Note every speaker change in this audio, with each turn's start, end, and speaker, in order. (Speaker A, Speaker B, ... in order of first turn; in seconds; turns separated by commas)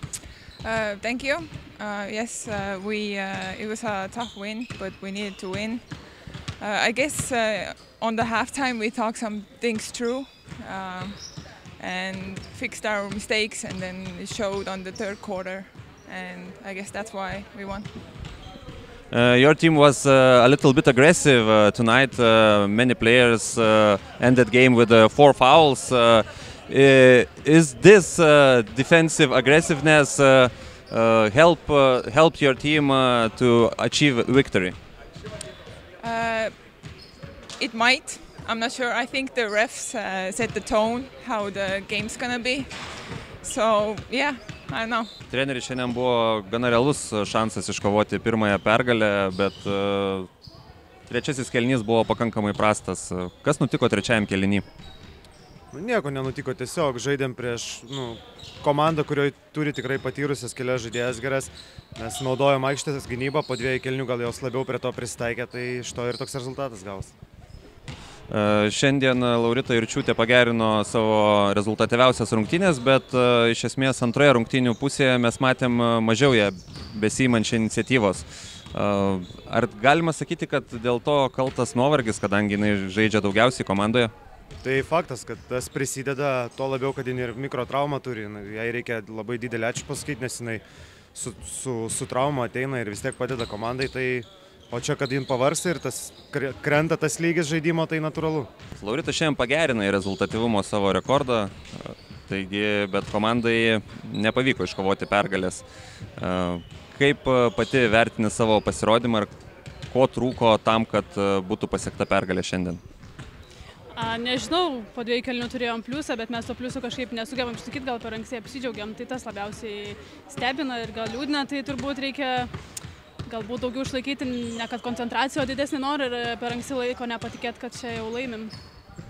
Speaker A: 0.6-17.9, Speaker B: 19.1-34.7, Speaker A: 36.0-36.8, Speaker A: 37.6-45.1, Speaker B: 45.3-50.3, Speaker B: 51.1-54.6, Speaker C: 55.7-67.1, Speaker B: 68.3-84.1, Speaker C: 84.6-90.6, Speaker C: 91.1-98.5, Speaker B: 98.7-105.6, Speaker B: 106.2-109.3, Speaker B: 109.9-112.8, Speaker D: 113.9-122.5, Speaker D: 123.2-128.5